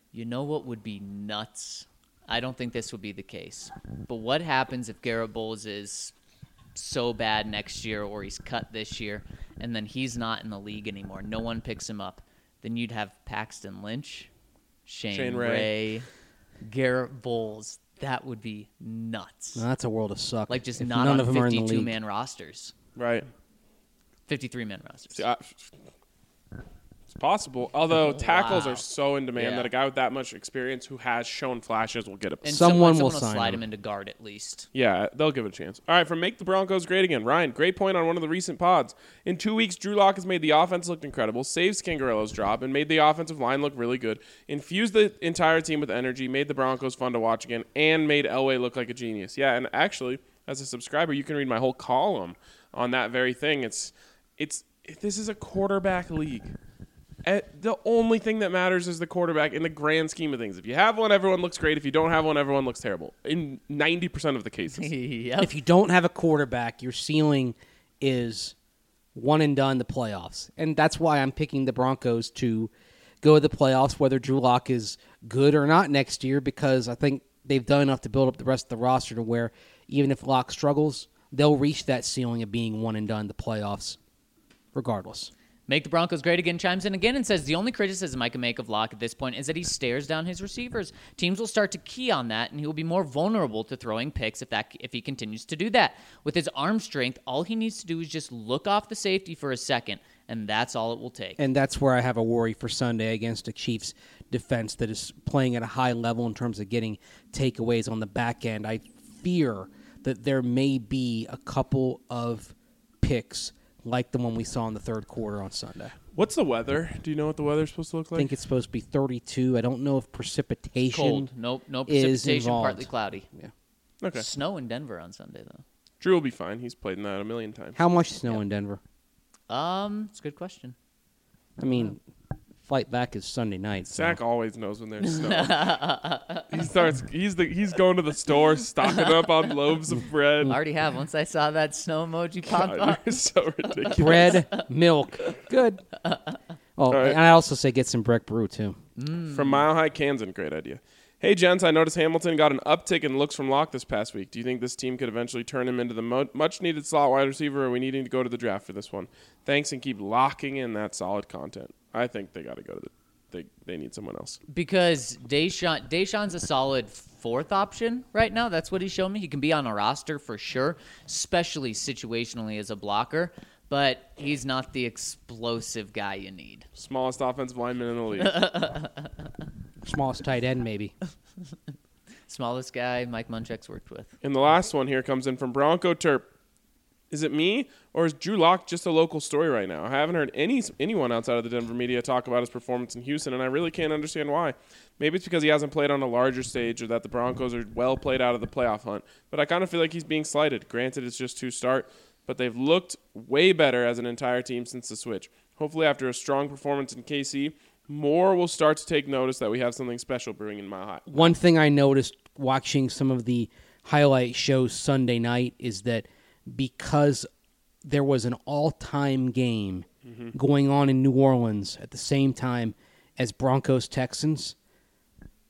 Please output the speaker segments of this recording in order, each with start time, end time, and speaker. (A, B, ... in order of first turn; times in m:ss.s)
0:00.1-0:06.1 A
0:06.8-0:14.3 A
0:14.9-0:16.1 A
0:15.1-0:15.7 B
0:16.6-0:19.6 A
0:19.6-0:22.0 C
0:20.5-0:22.8 A
0:23.0-0:23.3 B
0:24.3-0:25.2 A
0:25.1-0:25.7 B
0:27.1-0:32.8 B
0:28.0-0:28.8 A
0:29.4-0:29.7 A
0:32.4-0:34.7 A
0:32.5-0:33.6 C
0:34.7-0:56.5 B
0:57.2-1:04.9 B
1:04.8-1:05.5 A
1:05.4-1:08.6 C
1:09.2-1:12.7 C
1:13.2-1:24.0 C
1:24.7-1:25.3 C
1:25.7-1:41.4 A
1:41.4-1:56.0 C
1:56.1-1:58.3 B
1:58.2-2:01.3 C
2:00.9-2:03.3 A
2:01.9-2:03.5 C
2:04.0-2:04.3 B
2:04.2-2:05.6 A
2:06.0-2:07.8 B
2:07.8-2:08.8 C
2:09.5-2:10.8 A
2:11.6-2:12.0 C
2:12.6-2:14.2 C
2:13.9-2:15.8 B
2:15.1-2:16.5 A
2:16.5-2:20.6 B
2:20.5-2:23.0 A
2:22.4-2:24.4 B
2:23.7-2:24.4 A
2:24.0-2:25.8 C
2:26.1-2:26.4 A
2:26.8-2:28.8 C
2:26.9-2:27.2 B
2:29.0-2:29.6 A
2:29.3-2:44.4 B
2:44.5-2:56.7 A
2:56.8-2:58.4 B
2:58.2-2:59.1 A
2:59.8-3:00.9 C
3:02.3-3:04.1 A
3:04.2-3:06.3 B
3:07.1-3:31.4 B
3:31.1-3:37.3 C
3:37.8-3:44.6 C
3:40.1-3:40.3 B